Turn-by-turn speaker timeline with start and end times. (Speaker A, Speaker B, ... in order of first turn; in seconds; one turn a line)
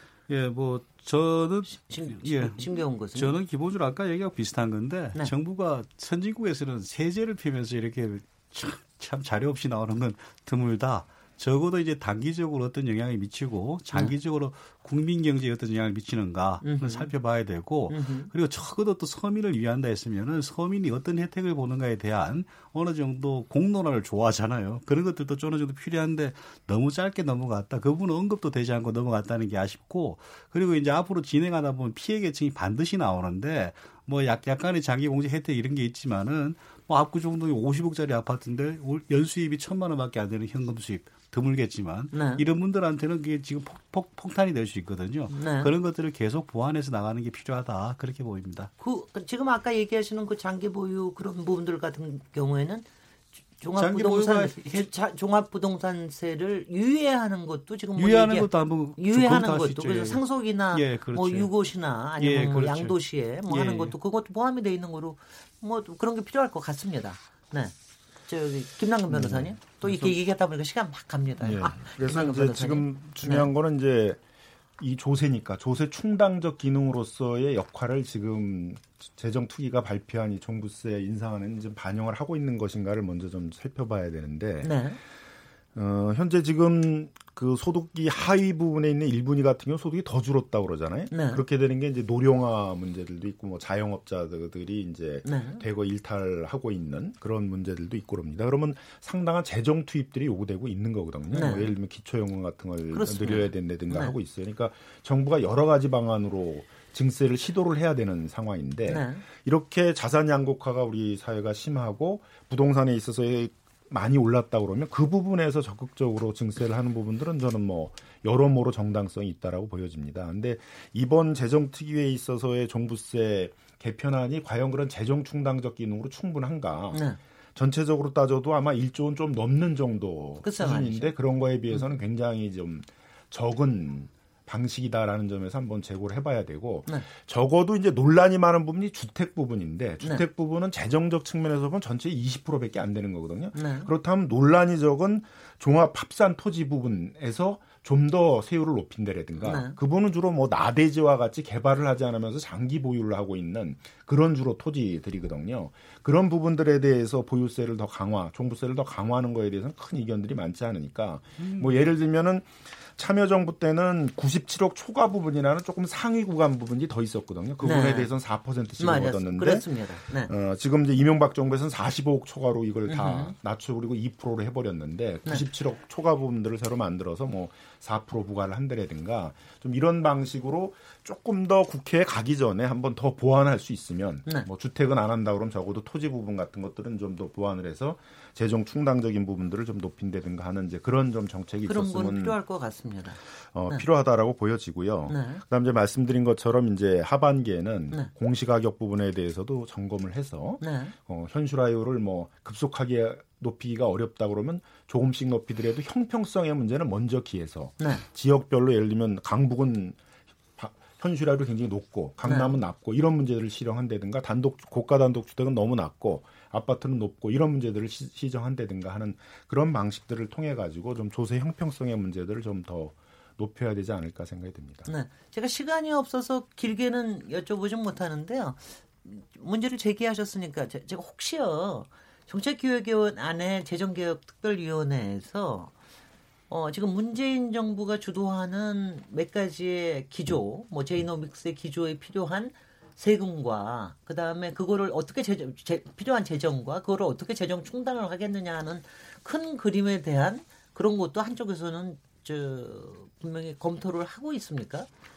Speaker A: 0.3-48.7
Speaker B: 1.7-3.4
Speaker B: 16.6-17.1
Speaker B: 17.9-18.3
Speaker B: 42.1-42.4
Speaker B: 45.3-45.7
Speaker B: 48.8-52.9
Speaker B: 53.6-67.7
Speaker A: 53.8-54.9
Speaker A: 58.0-61.5
Speaker A: 62.2-64.0
Speaker B: 68.3-73.5
Speaker C: 69.2-69.5
Speaker A: 69.8-70.2
Speaker C: 71.4-74.2
Speaker C: 74.8-84.8
Speaker B: 84.6-85.0
Speaker C: 85.8-127.0
Speaker B: 91.1-91.4
Speaker B: 95.2-95.6
Speaker B: 101.3-101.7
Speaker B: 102.9-104.2
Speaker B: 108.9-109.2
Speaker B: 126.9-127.2
Speaker C: 127.6-192.4
Speaker B: 130.4-131.1
Speaker B: 143.5-143.9
Speaker B: 149.4-149.8
Speaker A: 161.4-161.7
Speaker B: 167.6-168.1
Speaker B: 168.8-170.3
Speaker B: 172.9-173.3
Speaker B: 191.7-193.2
Speaker C: 193.5-210.0
Speaker B: 195.1-195.4
Speaker B: 200.6-200.9
Speaker B: 207.8-208.0
Speaker C: 210.6-224.9
Speaker B: 212.2-212.5
Speaker B: 224.9-235.7
Speaker B: 236.5-254.9